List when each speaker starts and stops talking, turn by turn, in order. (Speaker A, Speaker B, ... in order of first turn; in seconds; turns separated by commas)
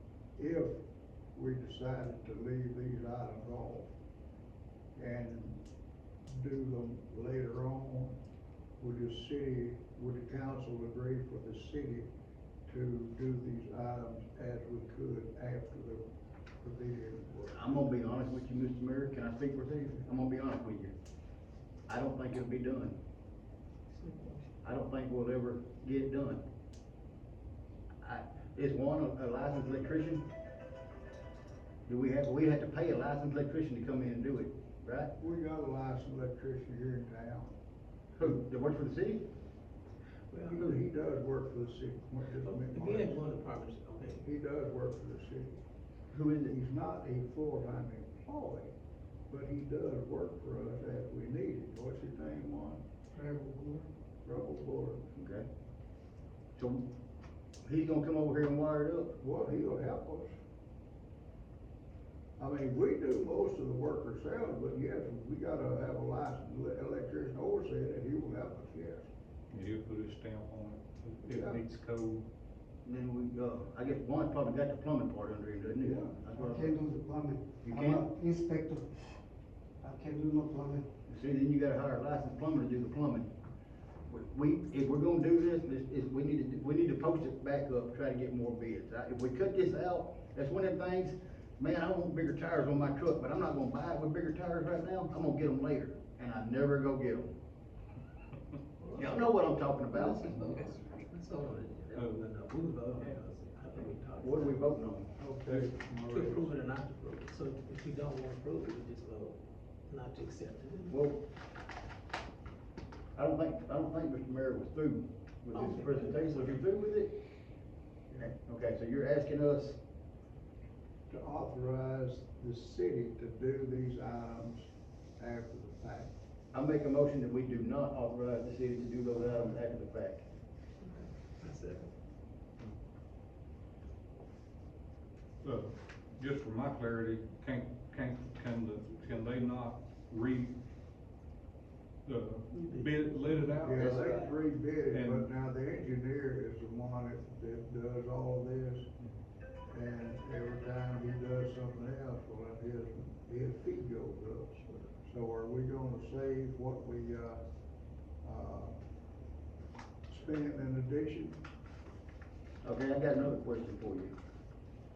Speaker A: 0.4-0.8, Speaker A: 1.4-3.9, Speaker A: 5.0-5.6, Speaker A: 6.3-8.2, Speaker A: 8.8-12.1, Speaker A: 12.7-16.0, Speaker A: 16.6-17.6, Speaker B: 17.5-20.9, Speaker B: 21.9-23.0, Speaker C: 23.9-24.5, Speaker B: 24.6-26.4, Speaker B: 28.0-30.2, Speaker B: 31.9-35.1, Speaker A: 35.2-37.5, Speaker B: 38.2-39.2, Speaker C: 40.3-40.7, Speaker A: 40.5-43.2, Speaker C: 42.4-44.2, Speaker A: 44.2-45.6, Speaker B: 46.1-46.5, Speaker A: 46.4-48.7, Speaker A: 49.3-52.8, Speaker D: 53.5-53.9, Speaker A: 54.2-55.1, Speaker B: 55.2-55.5, Speaker B: 56.6-56.9, Speaker B: 57.6-59.2, Speaker A: 59.2-60.3, Speaker A: 62.4-69.1, Speaker E: 69.5-72.2, Speaker A: 71.3-71.6, Speaker B: 72.8-76.8, Speaker A: 75.8-76.1, Speaker D: 76.3-79.1, Speaker B: 77.6-78.1, Speaker D: 79.8-80.9, Speaker B: 81.1-83.3, Speaker B: 84.1-97.3, Speaker C: 98.8-99.2, Speaker B: 99.0-100.7, Speaker C: 100.0-104.7, Speaker B: 104.2-105.1, Speaker A: 105.2-106.5, Speaker C: 106.1-111.0, Speaker B: 110.9-111.2, Speaker B: 113.2-117.1, Speaker C: 115.5-116.6, Speaker B: 118.2-119.8, Speaker A: 121.1-126.1, Speaker B: 126.5-130.2, Speaker C: 130.8-131.9, Speaker E: 135.4-140.6, Speaker E: 142.1-144.3, Speaker C: 142.5-144.3, Speaker A: 143.6-148.9, Speaker E: 144.9-145.3, Speaker A: 149.7-157.4, Speaker A: 158.2-158.8, Speaker A: 160.1-161.4, Speaker B: 162.6-164.1